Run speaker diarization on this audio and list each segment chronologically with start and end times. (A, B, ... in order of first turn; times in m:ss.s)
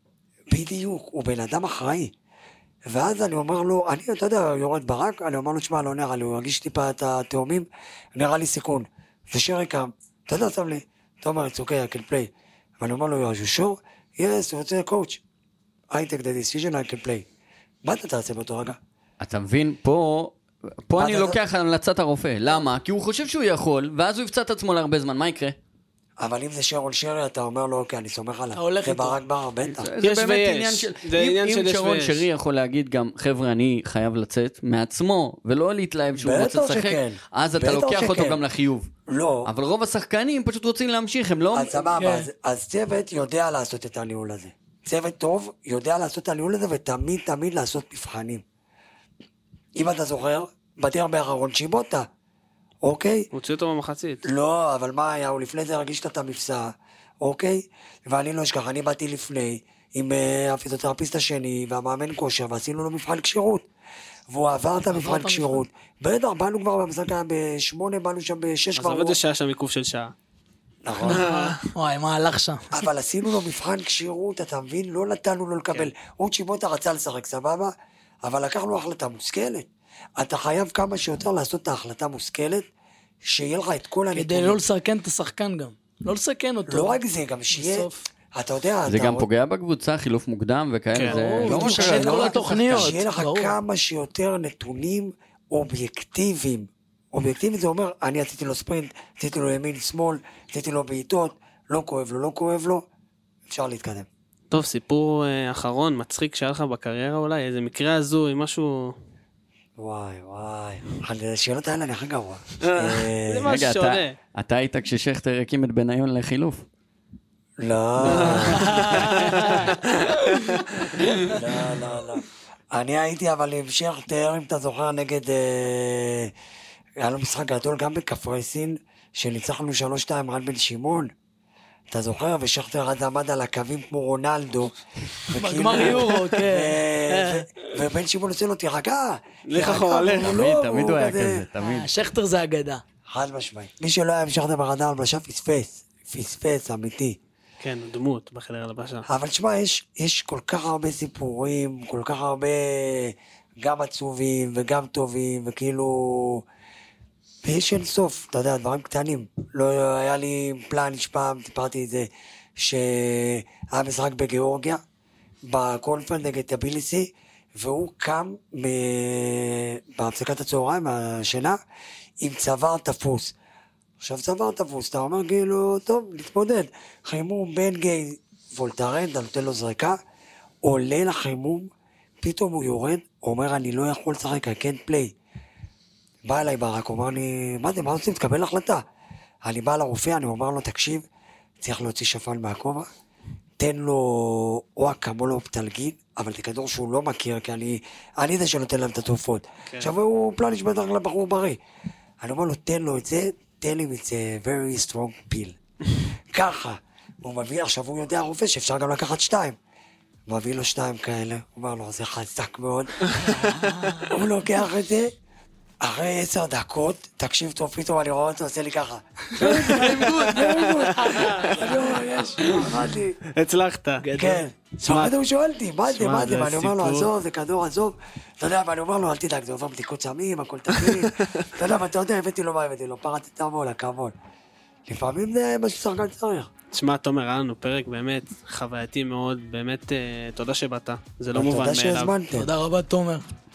0:00.5-0:02.1 A
0:02.9-0:15.2 A
0:15.9-0:17.2 A
0:17.8-0:18.8 A
0:19.2-0:25.6 B
0:21.0-0:21.4 A
0:26.2-0:29.9 A
0:28.5-0:29.2 C
0:29.6-0:38.9 B
0:30.0-0:32.2 D
0:36.2-0:38.4 A
0:39.1-0:39.5 A
0:39.4-0:42.0 B
0:41.5-0:48.4 A
0:41.9-0:42.3 C
0:49.8-0:52.1 A
0:52.8-0:53.3 A
0:53.3-0:54.2 D
0:54.2-1:03.6 A
1:04.3-1:09.2 A
1:04.8-1:05.6 C
1:08.8-1:10.1 D
1:10.8-1:11.3 A
1:11.0-1:12.8 C
1:11.0-1:11.6 D
1:12.7-1:22.6 A
1:23.2-1:24.6 A
1:24.1-1:27.0 C
1:26.7-1:29.3 A
1:27.5-1:28.0 C
1:28.9-1:32.9 B
1:30.9-1:31.2 D
1:31.0-1:33.5 C
1:31.4-1:42.8 A
1:43.5-1:44.1 A
1:44.5-1:48.9 D
1:49.8-1:53.5 A
1:52.6-1:54.1 D
1:53.4-1:56.6 B
1:57.6-1:59.4 A
1:58.0-2:01.3 D
1:58.5-1:59.5 C
2:01.2-2:06.3 A
2:07.0-2:11.1 A
2:11.9-2:14.7 A
2:15.2-2:21.4 A
2:15.3-2:17.5 C
2:19.5-2:20.4 D
2:20.1-2:21.9 B
2:21.6-2:22.8 C
2:23.1-2:27.2 A
2:27.6-2:29.0 D
2:29.0-2:36.4 A
2:37.4-2:44.8 A
2:45.4-2:51.6 A
2:52.2-2:53.3 A
2:54.0-3:00.0 A
3:00.6-3:01.7 A
3:02.2-3:05.1 A
3:06.2-3:08.8 A
3:09.4-3:11.0 A
3:11.6-3:12.9 A
3:13.6-3:21.6 A
3:22.2-3:25.6 A
3:26.3-3:29.6 A
3:30.3-3:33.4 A
3:33.2-3:34.0 D
3:33.4-3:34.1 C
3:34.0-3:35.1 A
3:35.8-3:43.2 A
3:39.4-3:42.8 D
3:39.7-3:40.4 C
3:41.0-3:41.5 C
3:43.3-3:44.1 D
3:44.0-3:44.4 C
3:44.2-3:54.1 A
3:44.9-3:45.1 D
3:45.9-3:47.1 D
3:50.7-3:51.5 D
3:54.9-3:56.5 A
3:56.7-4:02.1 D
4:01.3-4:02.5 A
4:02.3-4:03.3 C